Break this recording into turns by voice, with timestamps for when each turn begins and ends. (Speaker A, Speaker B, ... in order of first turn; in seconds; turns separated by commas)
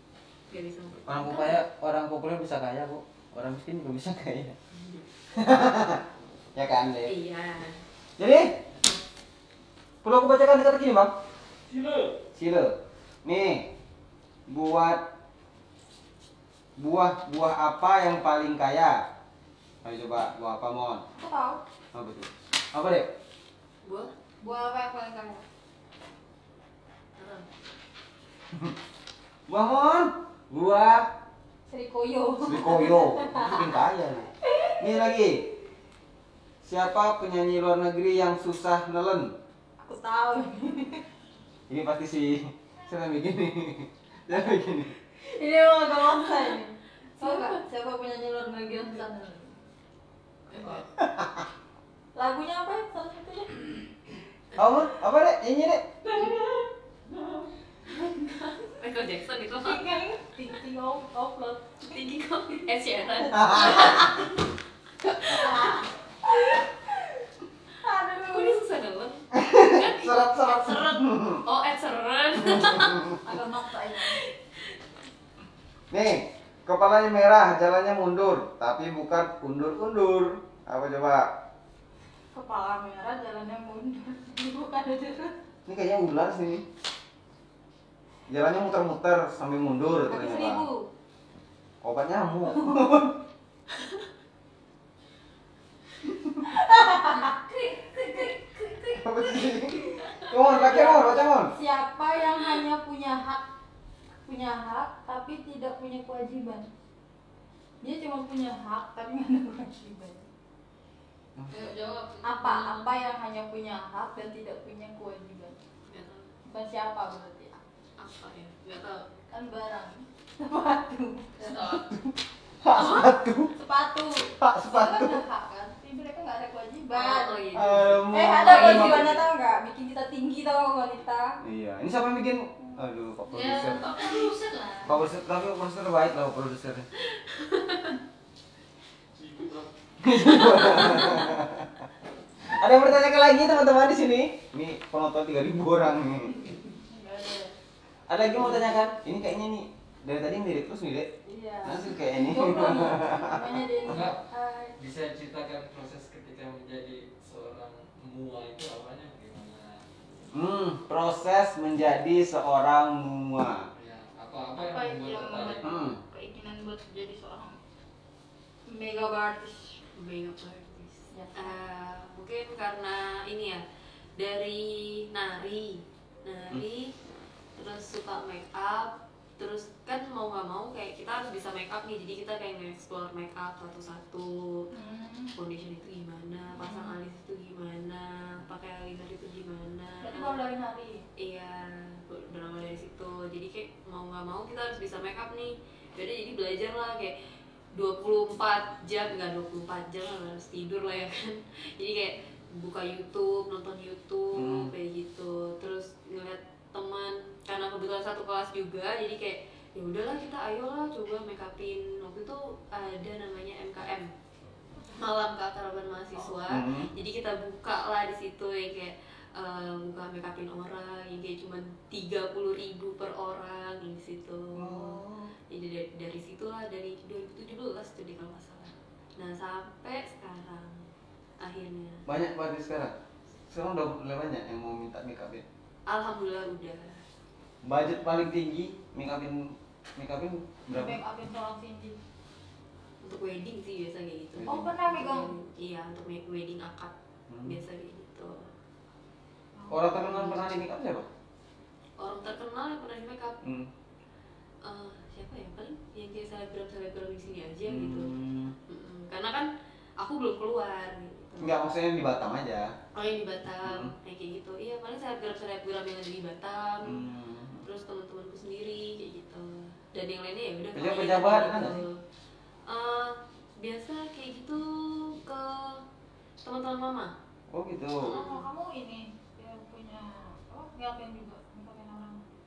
Speaker A: 0.5-1.6, Speaker B: 1.1-4.6, Speaker A: 4.7-5.1, Speaker B: 5.3-6.0, Speaker B: 6.5-7.1, Speaker A: 7.1-7.8, Speaker B: 8.2-8.5, Speaker B: 10.0-11.1, Speaker C: 11.7-12.2, Speaker B: 12.3-13.7, Speaker B: 14.5-15.0, Speaker B: 16.8-19.0, Speaker B: 19.8-21.0, Speaker D: 21.2-21.6, Speaker B: 21.9-23.1, Speaker A: 23.8-24.1, Speaker D: 24.4-25.4, Speaker A: 27.2-27.5, Speaker B: 29.5-31.1, Speaker D: 31.7-33.7, Speaker B: 32.4-35.5, Speaker D: 34.5-35.2, Speaker B: 36.6-39.3, Speaker D: 39.8-41.1, Speaker B: 41.7-44.9, Speaker D: 45.2-49.6, Speaker A: 47.2-47.6, Speaker A: 50.5-50.8, Speaker B: 51.0-51.5, Speaker D: 52.1-53.8, Speaker B: 54.5-56.1, Speaker A: 58.5-59.8, Speaker D: 59.6-61.9, Speaker A: 61.9-64.3, Speaker B: 63.3-64.1, Speaker D: 65.2-67.2, Speaker D: 67.8-68.6, Speaker A: 68.3-73.2, Speaker B: 69.3-71.4, Speaker B: 72.4-73.1, Speaker D: 73.1-74.3, Speaker A: 74.1-74.3, Speaker B: 75.9-81.3, Speaker D: 82.3-85.4, Speaker B: 85.7-86.6, Speaker B: 88.3-90.7, Speaker A: 90.1-90.7, Speaker B: 91.8-93.2, Speaker B: 96.0-96.4, Speaker D: 96.4-97.3, Speaker E: 97.2-99.1, Speaker B: 99.0-101.5, Speaker D: 100.3-103.5, Speaker D: 104.2-106.7, Speaker D: 107.8-110.3, Speaker B: 111.4-111.7, Speaker E: 111.5-113.0, Speaker D: 112.2-115.6, Speaker A: 115.9-116.3, Speaker D: 116.5-117.6, Speaker A: 118.0-119.1, Speaker D: 119.3-121.8, Speaker E: 121.4-121.9, Speaker B: 121.8-122.0, Speaker B: 122.6-123.5, Speaker A: 122.8-123.1, Speaker D: 123.5-127.4, Speaker B: 124.4-125.2, Speaker A: 126.9-129.2, Speaker B: 127.5-129.2, Speaker D: 128.1-131.4, Speaker B: 131.4-133.9, Speaker E: 133.3-134.9, Speaker B: 134.8-136.9, Speaker A: 137.0-138.0, Speaker C: 139.2-139.7, Speaker B: 140.0-141.8, Speaker B: 142.5-146.4, Speaker D: 146.9-147.6, Speaker B: 148.1-151.1, Speaker D: 151.2-154.8, Speaker B: 151.6-153.6, Speaker C: 153.8-154.2, Speaker C: 154.8-160.3, Speaker B: 160.3-163.7, Speaker C: 163.8-165.7, Speaker D: 164.6-167.6, Speaker B: 165.6-166.0, Speaker D: 168.7-169.8, Speaker A: 170.0-173.6, Speaker D: 171.1-171.6, Speaker A: 174.2-176.9, Speaker A: 177.6-184.7, Speaker D: 184.7-185.3, Speaker A: 185.4-190.4, Speaker D: 186.6-186.9, Speaker D: 190.0-191.0, Speaker A: 191.2-197.1, Speaker A: 197.7-214.1, Speaker B: 204.3-204.7, Speaker A: 215.0-232.1, Speaker B: 216.5-216.9, Speaker B: 224.6-225.3, Speaker B: 232.1-232.9, Speaker B: 233.5-235.4, Speaker A: 235.9-237.0, Speaker B: 237.6-241.0, Speaker D: 240.7-242.0, Speaker A: 243.0-246.9, Speaker B: 244.4-244.7, Speaker D: 244.4-245.3, Speaker B: 247.3-247.6, Speaker A: 247.4-248.5, Speaker D: 249.6-250.5, Speaker B: 249.7-251.1, Speaker A: 252.0-253.4, Speaker B: 253.4-253.7, Speaker A: 254.6-258.1, Speaker B: 257.6-258.6, Speaker A: 258.7-259.5, Speaker A: 260.0-261.7, Speaker B: 261.4-262.7, Speaker A: 262.9-267.1, Speaker B: 263.6-263.9, Speaker B: 266.8-267.7, Speaker A: 267.6-272.0, Speaker B: 270.8-271.8, Speaker A: 272.7-275.8, Speaker A: 276.4-277.1, Speaker B: 277.5-278.2, Speaker A: 278.0-278.5, Speaker D: 278.1-282.2